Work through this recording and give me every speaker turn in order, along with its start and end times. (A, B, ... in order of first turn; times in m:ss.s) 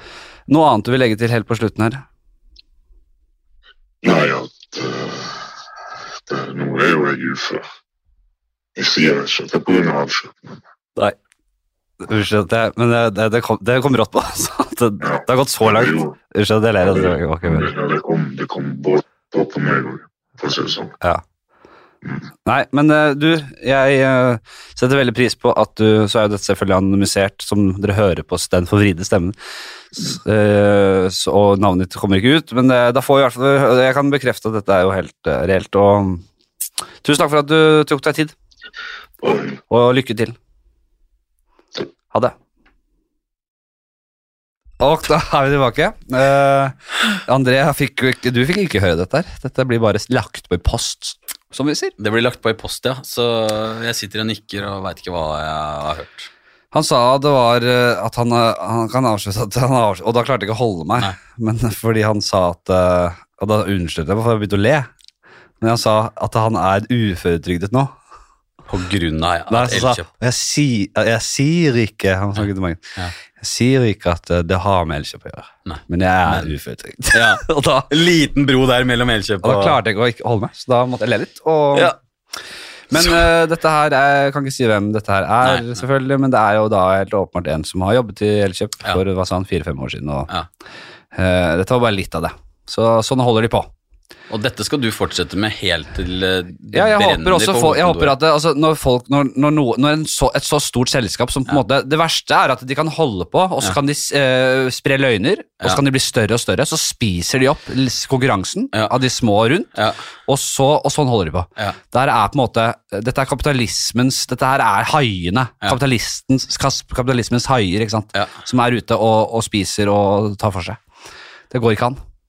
0:00.5-0:02.0 A
0:04.0-0:05.5 B
0:06.3-0:07.7 B
0:08.8-0:10.6 B
0:12.0-0:17.7 A
0:15.0-0:16.2 B
0:16.8-0:21.0 B
0:22.4-0:29.4 A
0:30.0-0:36.2 A
0:37.0-0:38.3 A
0:39.2-0:39.6 B
0:39.7-0:40.4 A
0:44.8-0:51.9 A
0:52.0-0:56.3 C
0:56.7-1:04.9 A
1:05.6-1:07.9 A
1:08.7-1:10.1 C
1:09.5-1:17.9 A
1:15.7-1:16.5 C
1:17.1-1:19.8 C
1:19.4-1:21.9 A
1:22.9-1:30.3 A
1:25.4-1:25.7 C
1:31.1-1:33.7 A
1:34.3-1:38.2 C
1:36.7-1:49.7 A
1:50.3-2:00.8 A
2:01.5-2:02.0 A